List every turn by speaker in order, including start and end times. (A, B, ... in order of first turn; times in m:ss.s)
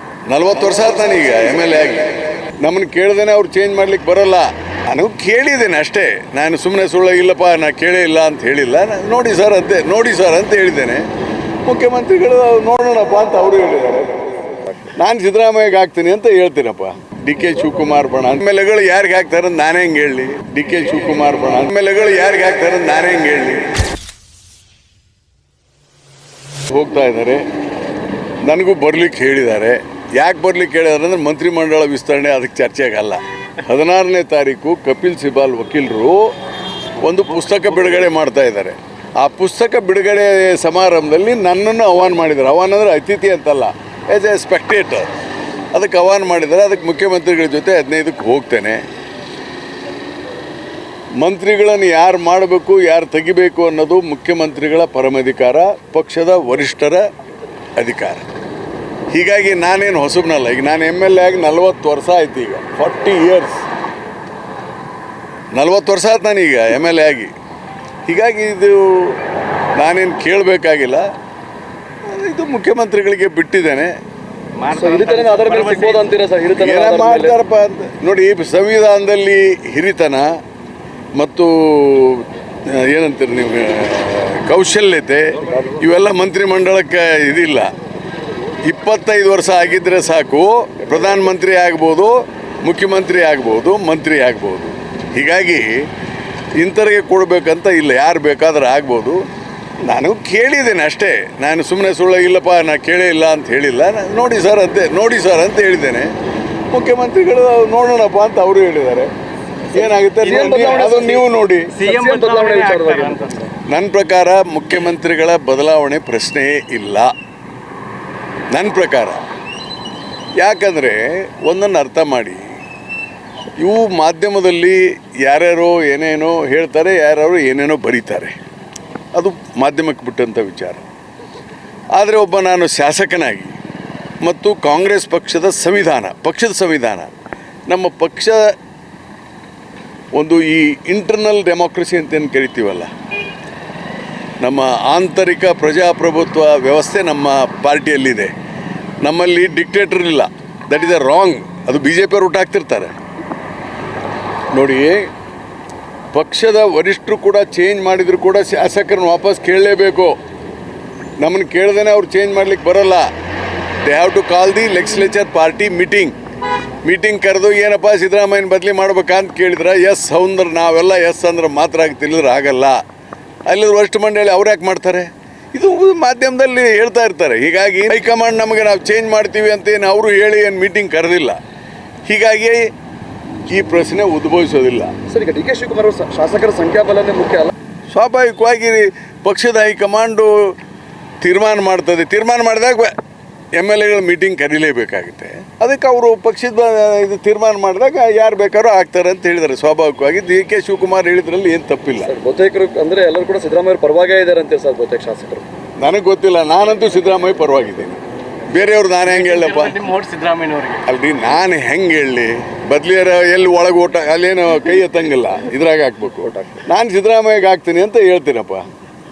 0:00.3-0:11.1 A
0:11.6-0:14.3 A
0:14.9-0:23.7 A
0:26.7-0:27.4 A
0:28.4-0:36.3 A
0:37.0-0:45.1 A
0:45.7-0:48.8 A
0:51.2-0:57.0 A
0:57.8-0:58.3 A
0:59.1-1:03.6 A
1:05.5-1:07.3 A
1:08.1-1:09.2 A
1:09.8-1:11.0 A
1:12.0-1:13.9 A
1:14.6-1:16.1 B
1:14.7-1:17.4 C
1:16.6-1:20.3 A
1:21.1-1:27.7 A
1:28.6-1:35.8 A
1:36.6-1:39.2 A
1:39.8-1:46.1 A
1:46.7-1:49.1 A
1:49.7-1:51.7 A
1:50.1-1:53.5 C
1:51.7-1:53.5 B
1:53.6-1:57.1 A
1:58.5-1:59.2 A
2:00.4-2:02.5 A
2:03.6-2:08.4 A
2:09.1-2:10.8 A
2:12.0-2:13.6 A
2:14.2-2:17.1 A
2:17.7-2:18.5 A
2:20.1-2:22.9 A
2:24.4-2:28.3 A
2:29.0-2:33.0 A
2:34.5-2:35.1 A
2:36.1-2:40.1 A
2:41.2-2:43.1 A
2:43.8-2:46.1 A
2:46.8-2:52.8 A
2:53.5-3:01.4 A
3:02.0-3:02.7 A
3:03.5-3:04.9 A
3:05.1-3:07.5 C
3:07.9-3:10.5 A
3:11.2-3:12.9 A
3:13.5-3:22.1 A
3:22.0-3:25.4 C
3:25.8-3:29.8 A
3:29.0-3:30.8 B
3:30.8-3:38.6 A
3:36.4-3:36.6 C